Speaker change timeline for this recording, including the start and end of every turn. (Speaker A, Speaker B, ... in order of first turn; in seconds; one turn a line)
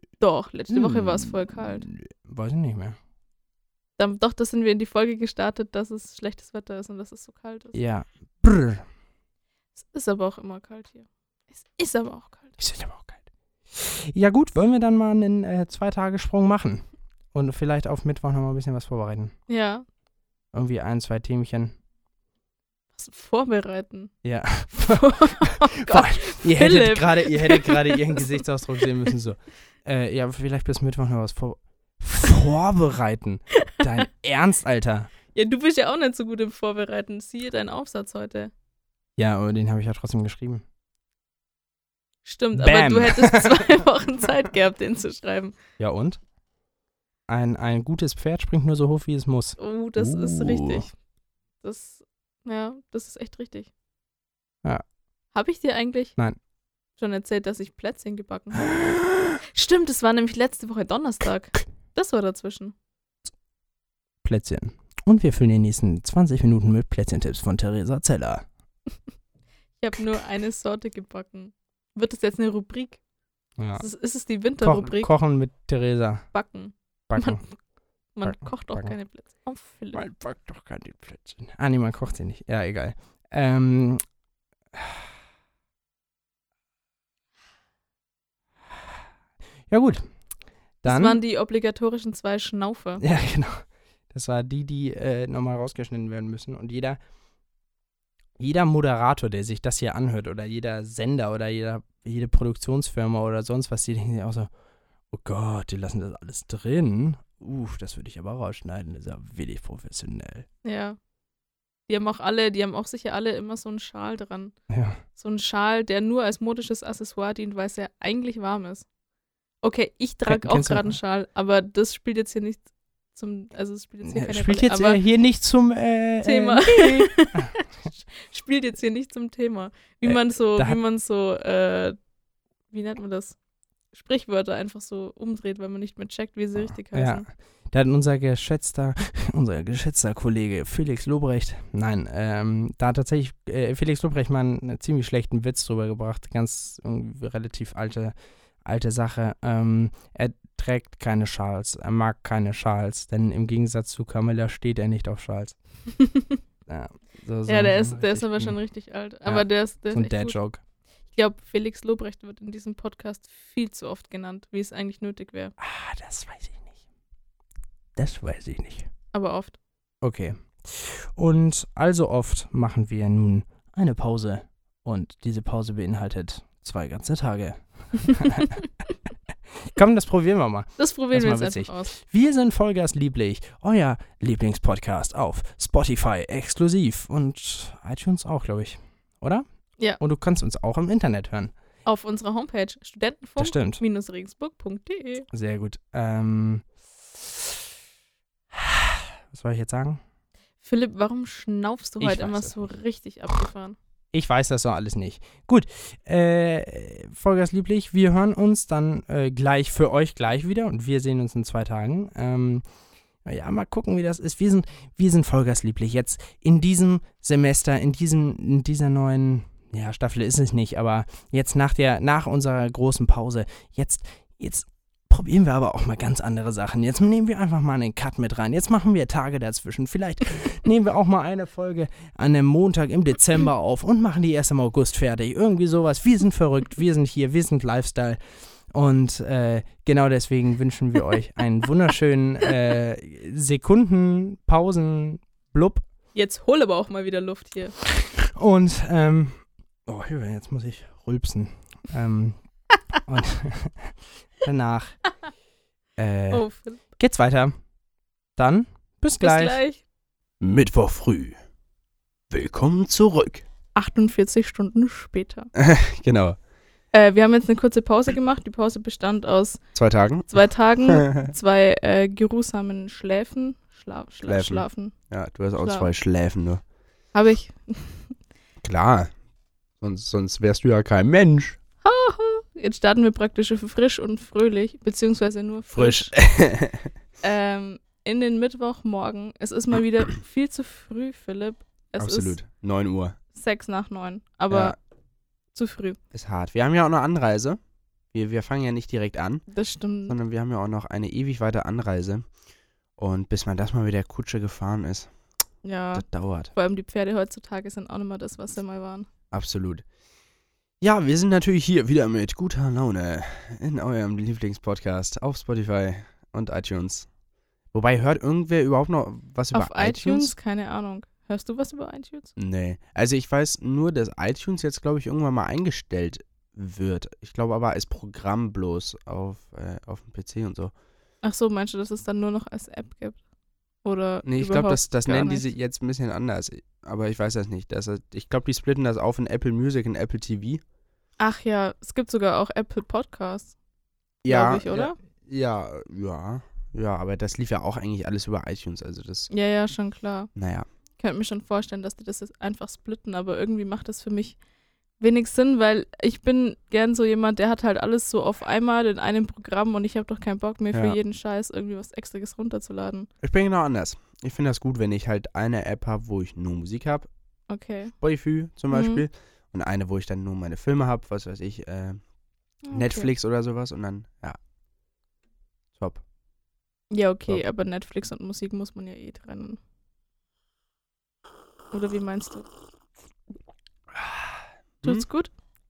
Speaker A: 0.2-1.9
Speaker B: 0.7-2.9
Speaker A: 4.0-7.8
Speaker B: 7.8-8.8
Speaker A: 9.8-12.6
Speaker B: 12.6-13.2
Speaker B: 13.7-16.8
Speaker B: 17.3-19.3
Speaker A: 19.5-19.9
Speaker B: 20.5-21.7
Speaker A: 22.9-24.1
Speaker B: 24.2-35.1
Speaker A: 24.8-28.3
Speaker A: 35.3-38.5
Speaker B: 39.2-40.6
Speaker A: 42.2-45.6
Speaker B: 42.6-43.5
Speaker B: 45.8-46.2
Speaker B: 47.3-50.8
Speaker A: 49.6-50.9
Speaker A: 51.6-53.7
Speaker A: 55.3-56.1
Speaker A: 57.0-58.9
Speaker A: 59.5-62.7
Speaker B: 64.2-68.4
Speaker A: 69.8-73.0
Speaker A: 73.8-75.1
Speaker B: 74.6-76.2
Speaker A: 76.3-77.5
Speaker B: 77.1-77.4
Speaker A: 78.2-80.0
Speaker B: 78.2-78.9
Speaker B: 79.9-84.0
Speaker B: 89.7-90.0
Speaker B: 90.8-91.2
Speaker A: 90.8-93.0
Speaker B: 93.0-93.5
Speaker B: 94.1-97.0
Speaker B: 98.4-104.5
Speaker B: 105.1-110.5
Speaker A: 110.6-111.0
Speaker A: 111.9-114.5
Speaker A: 115.2-118.9
Speaker A: 119.6-125.0
Speaker B: 120.3-120.9
Speaker B: 124.1-127.5
Speaker A: 126.2-132.0
Speaker B: 130.1-130.8
Speaker A: 132.7-133.4
Speaker A: 133.9-137.3
Speaker B: 136.9-148.1
Speaker B: 148.6-155.5
Speaker A: 156.0-156.4
Speaker B: 156.7-158.6
Speaker A: 157.5-160.4
Speaker B: 159.3-160.6
Speaker A: 161.1-165.5
Speaker B: 165.6-166.7
Speaker B: 168.0-168.8
Speaker A: 169.1-169.6
Speaker B: 170.0-178.6
Speaker B: 179.8-189.4
Speaker A: 180.8-181.9
Speaker B: 190.0-191.5
Speaker A: 191.8-195.3
Speaker B: 193.4-193.8
Speaker B: 195.3-196.6
Speaker B: 198.5-200.0
Speaker A: 200.6-203.8
Speaker B: 202.0-202.5
Speaker B: 204.1-212.6
Speaker B: 213.3-238.2
Speaker C: 236.3-236.7
Speaker B: 238.7-245.8
Speaker A: 246.1-247.8
Speaker B: 248.4-249.3
Speaker B: 249.9-252.4
Speaker B: 253.1-254.9
Speaker A: 256.3-256.8
Speaker B: 257.0-257.5
Speaker B: 258.4-259.6
Speaker A: 259.2-259.8
Speaker C: 260.4-261.4
Speaker C: 262.3-263.4
Speaker A: 263.8-265.5
Speaker C: 265.6-266.4
Speaker A: 266.9-269.6
Speaker C: 269.8-271.3
Speaker A: 270.3-274.9
Speaker C: 274.2-276.6
Speaker A: 275.6-275.9
Speaker A: 277.1-278.1
Speaker C: 278.6-279.1
Speaker C: 279.8-281.6
Speaker A: 281.8-286.1
Speaker C: 285.7-286.9
Speaker A: 287.2-292.4
Speaker C: 292.0-293.2
Speaker A: 293.3-294.8
Speaker C: 294.5-294.8
Speaker A: 295.5-296.0
Speaker C: 296.1-297.6
Speaker C: 298.1-299.4
Speaker A: 299.5-300.2
Speaker C: 300.1-302.3
Speaker C: 303.0-305.1
Speaker A: 305.6-309.1
Speaker C: 305.9-306.5
Speaker C: 309.3-309.9
Speaker C: 310.8-317.1
Speaker C: 317.7-320.4
Speaker A: 319.5-322.3
Speaker C: 322.4-330.7
Speaker A: 331.2-333.2
Speaker A: 333.8-335.5
Speaker C: 334.2-340.6
Speaker A: 341.2-343.6
Speaker C: 344.2-349.3
Speaker A: 344.3-345.0
Speaker A: 349.3-350.3
Speaker C: 350.4-350.6
Speaker A: 351.0-354.4
Speaker A: 355.0-363.1
Speaker C: 363.2-367.1
Speaker A: 367.5-367.9
Speaker C: 368.0-372.0
Speaker A: 368.7-369.0
Speaker A: 372.6-373.1
Speaker C: 372.7-374.4
Speaker C: 375.8-376.0
Speaker A: 376.9-379.6
Speaker A: 381.7-382.5
Speaker C: 383.9-384.3
Speaker A: 384.8-385.3